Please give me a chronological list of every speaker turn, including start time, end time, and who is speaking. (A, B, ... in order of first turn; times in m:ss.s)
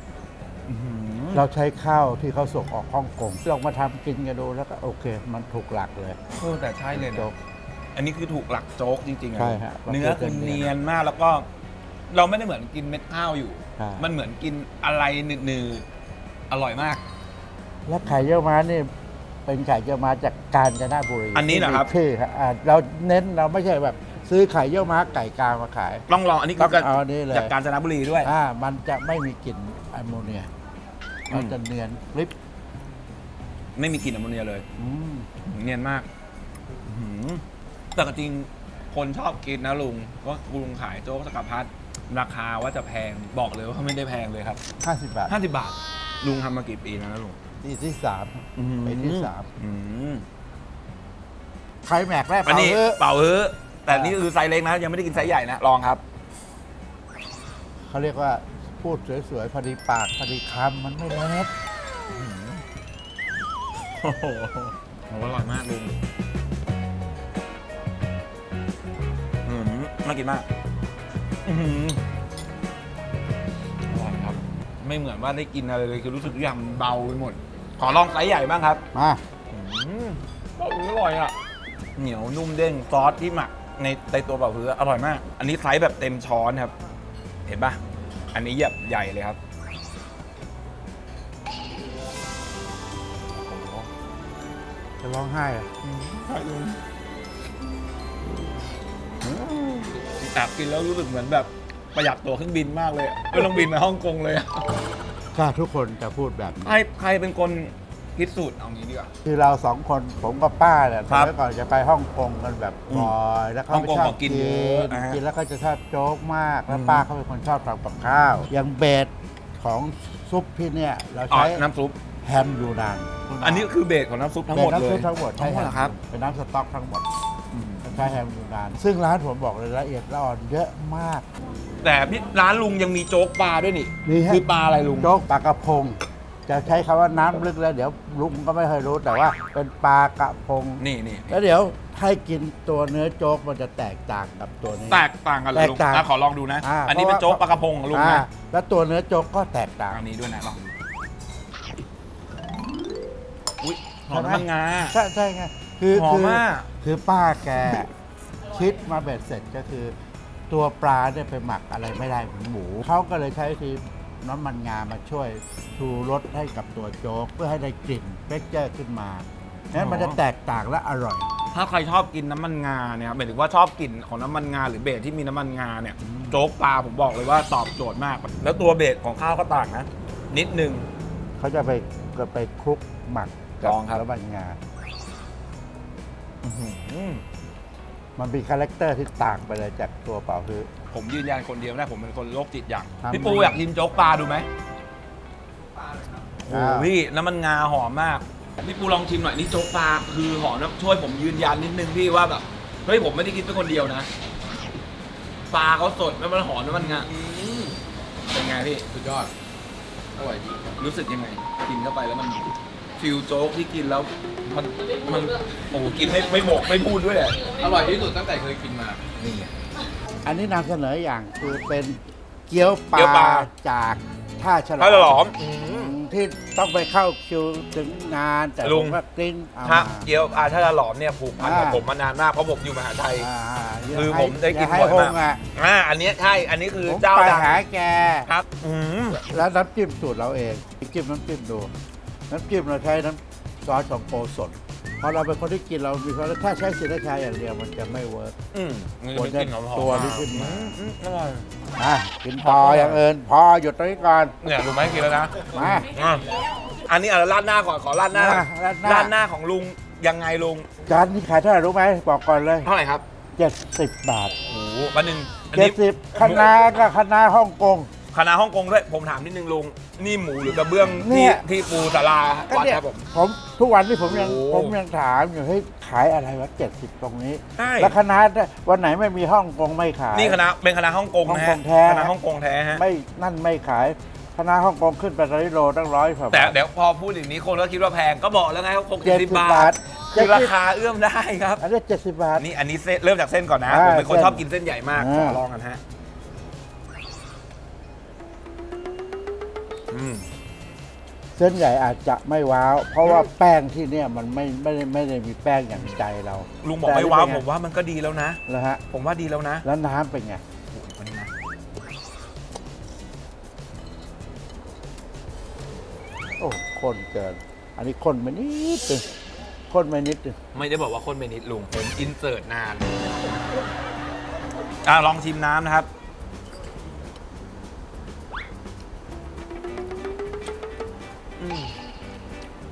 0:00.7-0:01.4 A
0:01.3-0:06.2 B
0:06.3-0:07.3 A
0:06.9-0:07.4 B
0:08.0-0:11.5 A
0:09.4-0:10.7 B
0:12.1-0:15.9 A
0:13.8-0:14.1 B
0:16.5-0:17.0 A
0:17.9-0:18.9 B
0:19.5-0:26.0 B
0:21.4-0:21.9 A
0:26.1-0:28.3 A
0:26.6-0:27.5 B
0:28.2-0:30.5 B
0:31.3-0:32.3 B
0:31.3-0:31.6 A
0:33.8-0:34.6 A
0:34.8-0:35.3 B
0:35.4-0:36.1 A
0:36.8-0:37.4 A
0:38.0-0:44.6 A
0:44.8-0:45.3 B
0:45.3-0:47.4 A
0:47.6-0:49.5 B
0:48.6-0:50.2 A
0:51.8-0:53.0 B
0:52.5-0:56.0 A
0:53.9-0:54.2 B
0:57.9-1:01.5 B
1:02.1-1:02.6 A
1:03.9-1:06.0 A
1:09.4-1:10.5 A
1:11.4-1:12.0 A
1:13.9-1:18.8 A
1:18.9-1:19.2 B
1:19.5-1:21.3 A
1:22.0-1:26.7 A
1:27.5-1:27.8 A
1:28.3-1:29.4 A
1:33.4-1:33.9 A
1:35.0-1:35.7 B
1:35.8-1:36.8 A
1:39.2-1:40.0 B
1:40.1-1:44.6 A
1:45.3-1:46.8 B
1:46.6-1:49.1 A
1:49.2-2:01.6 B
1:53.7-1:55.2 A
1:56.7-1:57.0 A
2:01.3-2:02.0 A
2:02.2-2:03.7 B
2:03.4-2:06.0 A
2:04.5-2:07.1 B
2:07.6-2:08.1 A
2:07.8-2:11.3 B
2:11.8-2:15.1 A
2:14.0-2:14.4 B
2:15.0-2:26.1 B
2:20.8-2:21.4 A
2:24.9-2:28.2 A
2:26.6-2:30.0 B
2:29.9-2:30.7 A
2:33.6-2:35.0 A
2:34.1-2:37.9 B
2:35.9-2:36.7 A
2:38.5-2:39.9 B
2:40.5-2:51.3 B
2:49.7-2:50.2 A
2:51.5-3:00.9 A
2:56.0-2:56.4 B
3:01.4-3:04.6 B
3:03.6-3:04.0 A
3:06.4-3:07.2 A
3:08.2-3:10.7 B
3:10.9-3:14.5 A
3:13.0-3:13.6 B
3:16.4-3:24.1 A
3:16.5-3:16.9 B
3:25.5-3:27.1 A
3:26.8-3:27.8 C
3:28.3-3:28.8 A
3:28.9-3:29.3 C
3:30.2-3:30.7 C
3:30.8-3:32.4 A
3:33.0-3:37.5 A
3:37.5-3:39.0 C
3:39.2-3:39.5 A
3:40.2-3:50.1 B
3:42.9-3:43.5 A
3:44.8-3:46.0 A
3:48.6-3:49.0 A
3:49.6-3:53.3 A
3:51.4-3:51.8 B
3:53.2-3:55.4 B
3:53.9-3:57.6 A
3:56.8-3:58.3 B
3:58.3-3:59.2 A
3:59.1-4:01.7 B
4:02.3-4:08.4 B
4:08.5-4:11.5 A
4:09.1-4:10.8 B
4:11.8-4:14.4 B
4:12.4-4:13.0 A
4:14.4-4:20.7 A
4:15.5-4:15.9 B
4:18.1-4:19.2 B
4:20.9-4:22.7 B
4:22.6-4:23.0 A
4:23.4-4:24.4 B
4:24.5-4:26.6 A
4:25.5-4:27.9 B
4:28.1-4:33.1 A
4:30.8-4:31.4 B
4:32.5-4:40.4 B
4:34.0-4:34.8 A
4:37.6-4:38.0 A
4:40.1-4:42.8 A
4:41.2-4:42.1 B
4:42.7-4:46.6 B
4:46.3-4:51.6 A
4:49.0-4:50.6 B
4:51.6-4:52.4 B
4:52.4-4:55.8 A
4:53.7-4:55.4 B
4:59.9-5:00.3 A
5:01.4-5:07.4 B
5:05.7-5:06.0 A
5:06.6-5:09.7 A
5:08.5-5:08.8 B
5:09.6-5:10.4 B
5:10.7-5:11.3 A
5:16.4-5:19.1 B
5:19.7-5:20.4 B
5:20.5-5:23.3 A
5:24.8-5:25.9 A
5:31.4-5:31.7 A